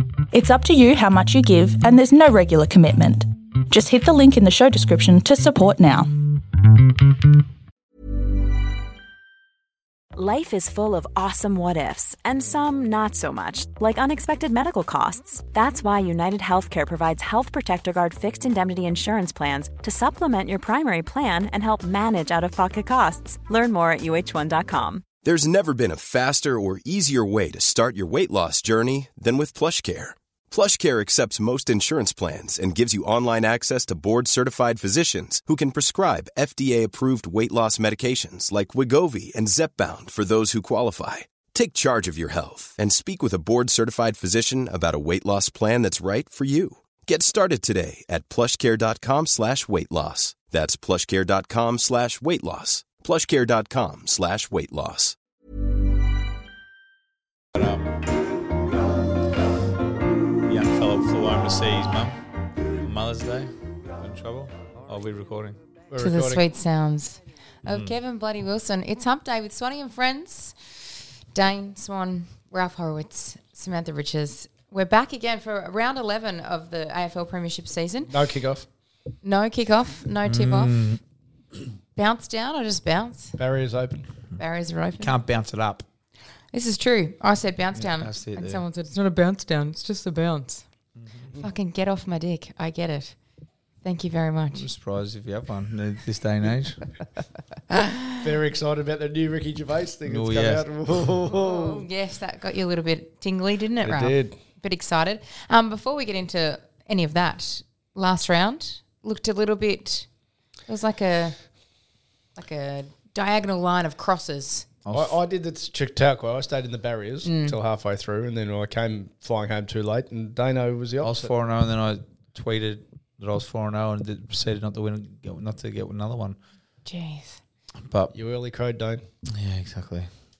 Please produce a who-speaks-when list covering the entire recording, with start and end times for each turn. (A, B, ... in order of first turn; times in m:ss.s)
0:00.3-0:06.2 A
0:10.2-0:25.1 B
0:25.2-0:55.2 C
0:57.5-0:58.1 D
1:00.4-1:02.2 D
1:02.7-1:05.6 D
1:05.9-1:06.4 E
1:06.0-1:10.8 F
1:07.7-1:07.9 D
1:11.3-1:18.2 F
1:18.1-1:18.7 E
1:19.2-1:20.9 F
1:20.2-1:21.0 D
1:22.0-1:23.4 F
1:23.4-1:24.1 E
1:24.4-1:25.2 F
1:25.0-1:25.9 D
1:26.5-1:30.7 F
1:27.8-1:28.6 D
1:31.0-1:31.3 D
1:31.4-1:33.2 F
1:33.8-1:34.7 F
1:34.5-1:36.8 D
1:37.7-1:38.0 F
1:38.2-1:41.9 E
1:40.1-1:40.6 D
1:41.3-1:50.1 F
1:43.8-1:44.4 E
1:50.7-1:51.4 F
1:52.4-1:54.7 F
1:54.9-1:55.1 D
1:54.9-2:01.3 E
1:57.2-1:57.6 F
2:01.0-2:06.4 D
2:06.8-2:07.4 F
2:07.8-2:08.1 D
2:08.1-2:09.0 E
2:09.3-2:10.1 D